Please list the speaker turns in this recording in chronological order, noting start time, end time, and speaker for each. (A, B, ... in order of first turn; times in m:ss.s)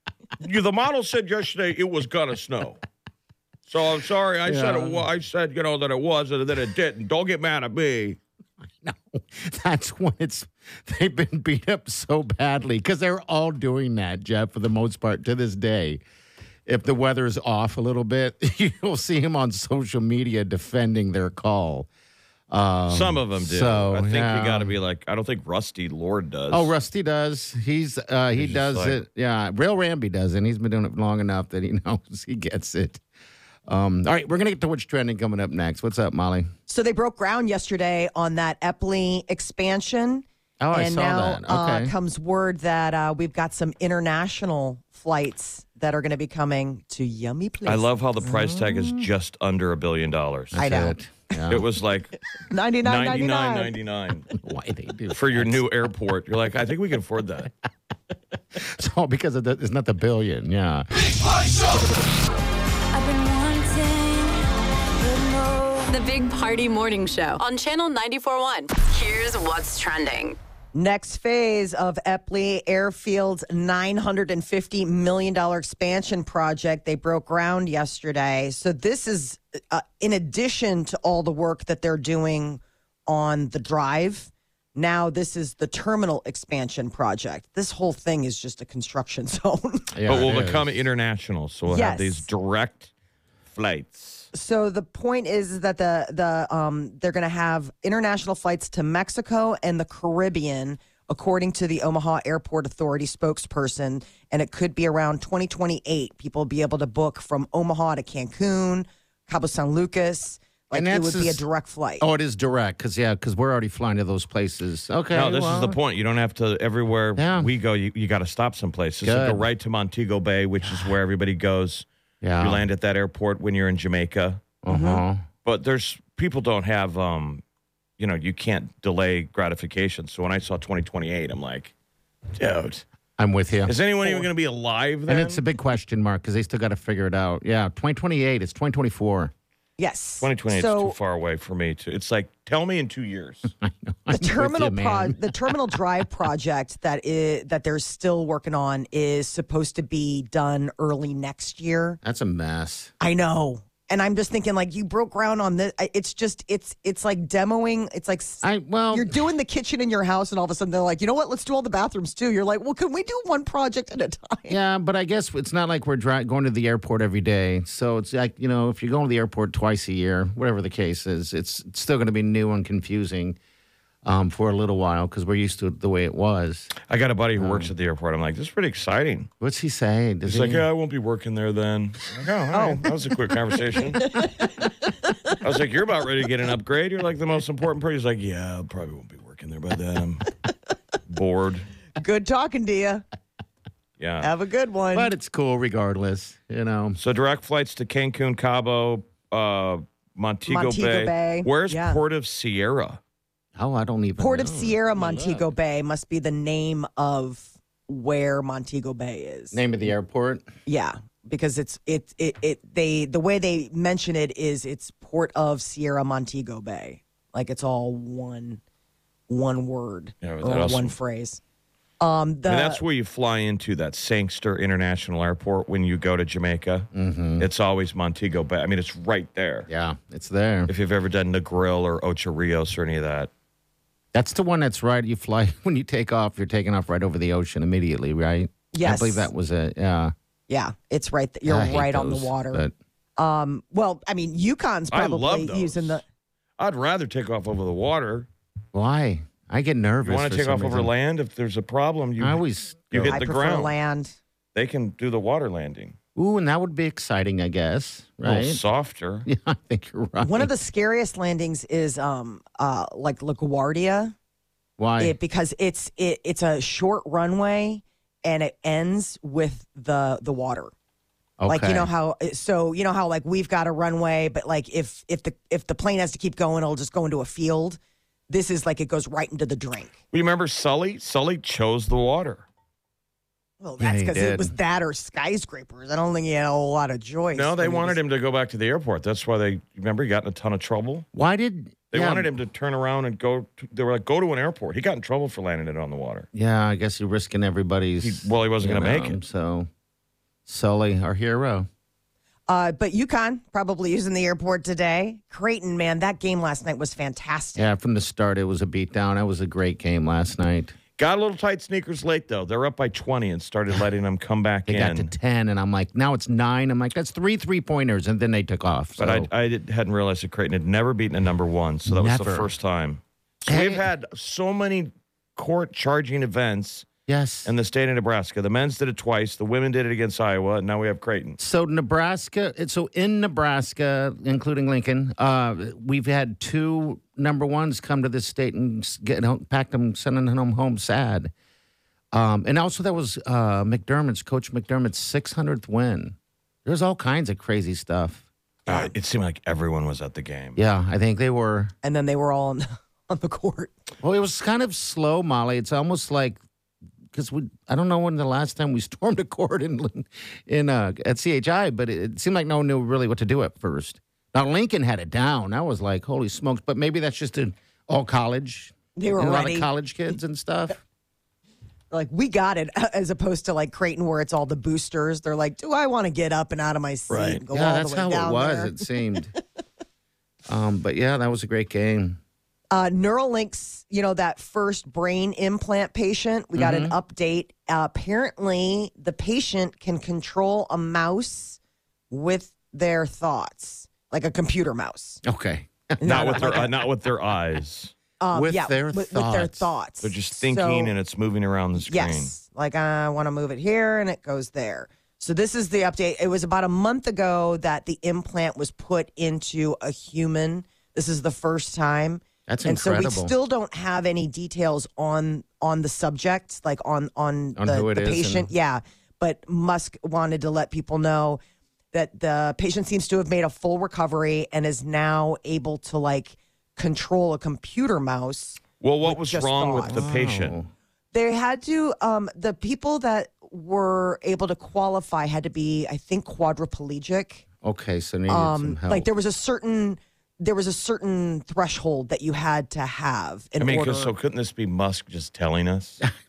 0:00.4-0:02.8 A
0:03.7-0:08.2 A
0:04.4-0:05.0 B
0:08.8-0:16.0 B
0:16.6-0:21.9 B
0:22.5-0:24.7 B
0:22.9-0:26.7 A
0:26.5-0:33.0 B
0:28.3-0:29.0 A
0:33.7-0:36.5 B
0:36.7-0:47.9 C
0:40.6-0:41.9 B
0:47.6-0:50.6 A
0:48.2-0:49.1 B
0:50.5-0:51.6 B
0:50.5-0:51.0 C
0:51.4-0:52.2 A
0:52.5-0:53.7 C
0:52.8-0:54.4 A
0:54.4-0:55.6 B
0:55.1-0:57.5 A
0:58.6-1:00.9 B
1:03.3-1:04.3 D
1:05.0-1:05.9 C
1:05.9-1:10.4 D
1:10.7-1:29.9 C
1:29.9-1:30.7 B
1:30.0-1:32.9 A
1:31.7-1:32.3 C
1:33.5-1:34.3 A
1:34.3-1:52.1 C
1:50.7-1:51.4 B
1:52.0-1:55.8 B
1:55.1-2:01.9 A
1:57.2-1:57.5 B
1:59.0-1:59.4 B
2:00.6-2:00.9 B
2:02.2-2:02.6 B
2:02.4-2:04.5 A
2:04.6-2:05.2 B
2:04.7-2:05.0 C
2:05.4-2:07.4 A
2:08.0-2:11.7 A
2:12.3-2:12.8 A
2:13.2-2:13.7 B
2:13.6-2:15.4 A
2:15.1-2:19.3 B
2:19.8-2:21.0 C
2:20.2-2:23.5 A
2:23.6-2:25.6 B
2:24.1-2:32.0 C
2:32.0-2:32.9 B
2:33.0-2:44.6 C
2:38.4-2:39.2 B
2:44.5-2:53.4 B
2:54.0-2:56.7 B
2:56.8-2:59.3 A
2:57.4-2:57.7 B
2:59.4-3:00.7 B
3:00.2-3:04.2 A
3:02.5-3:02.9 C
3:03.8-3:05.1 C
3:05.3-3:10.3 A
3:11.1-3:11.7 A
3:12.0-3:13.0 C
3:14.0-3:14.3 A
3:14.2-3:15.1 C
3:14.9-3:17.0 B
3:17.0-3:23.0 A
3:20.4-3:22.0 C
3:23.6-3:25.5 B
3:24.2-3:29.6 C
3:29.5-3:30.5 B
3:30.6-3:38.6 C
3:39.3-3:41.4 C
3:40.2-3:41.0 A
3:42.0-3:42.8 C
3:42.5-3:49.7 A
3:46.9-3:47.5 B
3:49.7-3:50.7 B
3:50.7-3:53.3 A
3:54.1-4:00.1 B
3:58.7-3:59.3 C
4:00.5-4:02.6 C
4:01.4-4:02.7 B
4:03.2-4:06.0 C
4:04.9-4:06.0 A
4:06.6-4:08.3 A
4:08.7-4:10.9 B
4:10.0-4:13.8 A
4:12.2-4:13.2 B
4:13.1-4:14.1 C
4:14.5-4:16.0 A
4:16.2-4:18.6 B
4:18.2-4:19.3 A
4:19.2-4:20.5 B
4:20.2-4:24.1 C
4:24.8-4:25.2 B
4:25.0-4:30.7 C
4:31.4-4:31.9 B
4:31.5-4:39.9 C
4:40.1-4:42.4 A
4:43.6-4:48.0 C
4:43.8-4:44.5 B
4:47.3-4:51.1 A
4:51.1-4:52.3 B
4:51.9-4:56.3 A
4:56.3-4:59.7 B
4:58.0-4:59.2 A
5:00.5-5:01.7 B
5:02.5-5:07.7 C
5:07.6-5:10.7 B
5:11.0-5:15.1 A
5:14.7-5:19.3 B
5:19.0-5:26.9 A
5:21.8-5:22.5 B
5:23.5-5:23.8 B
5:27.1-5:27.5 B
5:27.4-5:31.4 A
5:31.4-5:41.3 B
5:42.1-5:48.2 B
5:48.7-5:50.6 A
5:50.6-5:51.7 B
5:51.8-5:53.7 C
5:54.0-5:56.4 B
5:57.1-6:10.8 B
6:08.9-6:09.7 C
6:11.9-6:18.9 C
6:17.1-6:17.4 A
6:17.5-6:19.3 B
6:20.5-6:22.2 B
6:22.7-6:31.6 C
6:26.5-6:27.0 B
6:32.1-6:35.2 C
6:35.2-6:36.6 B
6:36.0-6:36.8 C
6:36.0-6:37.9 A
6:38.2-6:40.9 C
6:38.3-6:39.7 B
6:40.0-6:42.3 A
6:41.8-7:01.4 C
6:52.5-6:53.3 B
6:57.6-6:58.5 B
7:01.9-7:10.1 C
7:08.8-7:10.6 A
7:09.9-7:10.7 B
7:11.1-7:17.4 C
7:17.6-7:19.1 B
7:18.3-7:24.1 C
7:23.6-7:26.0 A